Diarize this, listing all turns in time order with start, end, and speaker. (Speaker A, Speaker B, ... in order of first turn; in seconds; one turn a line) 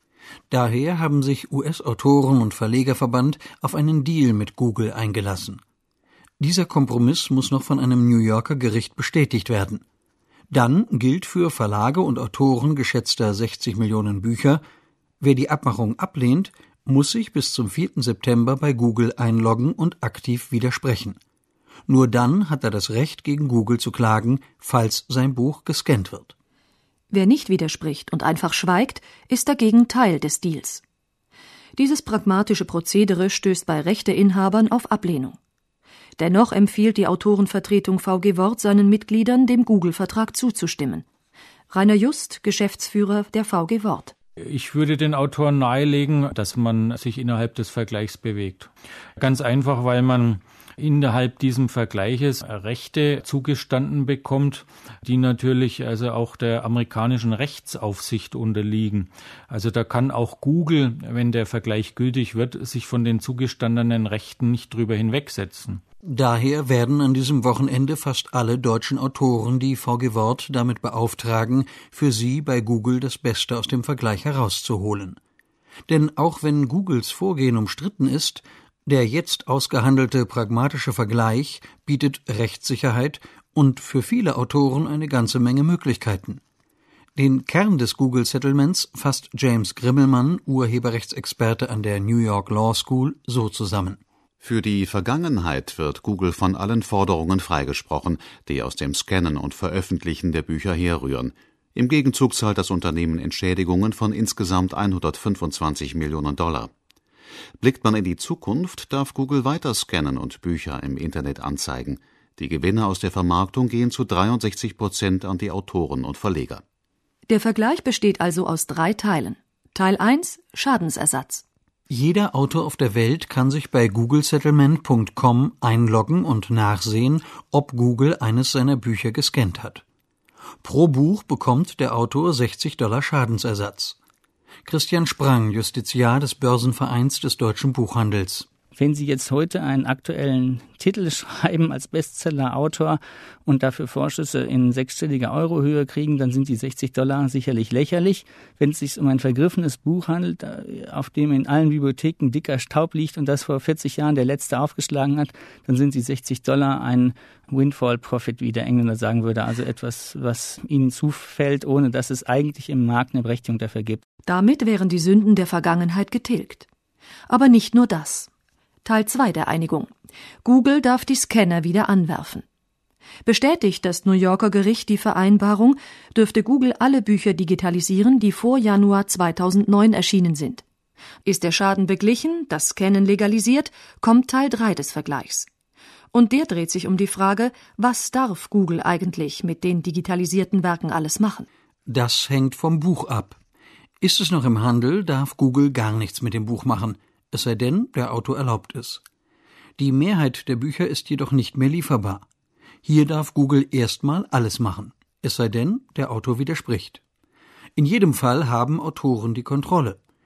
Speaker A: 0.5-5.6
Speaker A: 6.4-9.8
Speaker A: 10.5-14.6
Speaker A: 15.2-21.2
Speaker A: 21.9-26.3
Speaker B: 27.1-30.8
Speaker B: 31.8-35.4
Speaker B: 36.2-41.0
Speaker B: 41.7-44.1
Speaker C: 44.5-48.6
Speaker C: 49.2-54.6
Speaker C: 55.1-65.8
Speaker A: 66.1-75.2
Speaker A: 75.9-86.4
Speaker A: 87.2-94.0
Speaker D: 94.4-106.7
Speaker D: 107.6-116.6
Speaker B: 117.3-121.4
Speaker A: 121.9-129.8
Speaker A: 130.6-134.0
Speaker A: 134.7-138.5
Speaker E: 138.7-164.0
Speaker B: 164.3-166.7
Speaker B: 167.3-168.3
Speaker B: 168.8-169.9
Speaker B: 170.4-172.4
Speaker B: 173.2-180.6
Speaker B: 181.2-185.5
Speaker B: 186.1-191.5
Speaker A: 191.9-193.4
Speaker A: 194.0-199.0
Speaker A: 199.8-202.2
Speaker A: 202.8-207.0
Speaker A: 207.8-210.0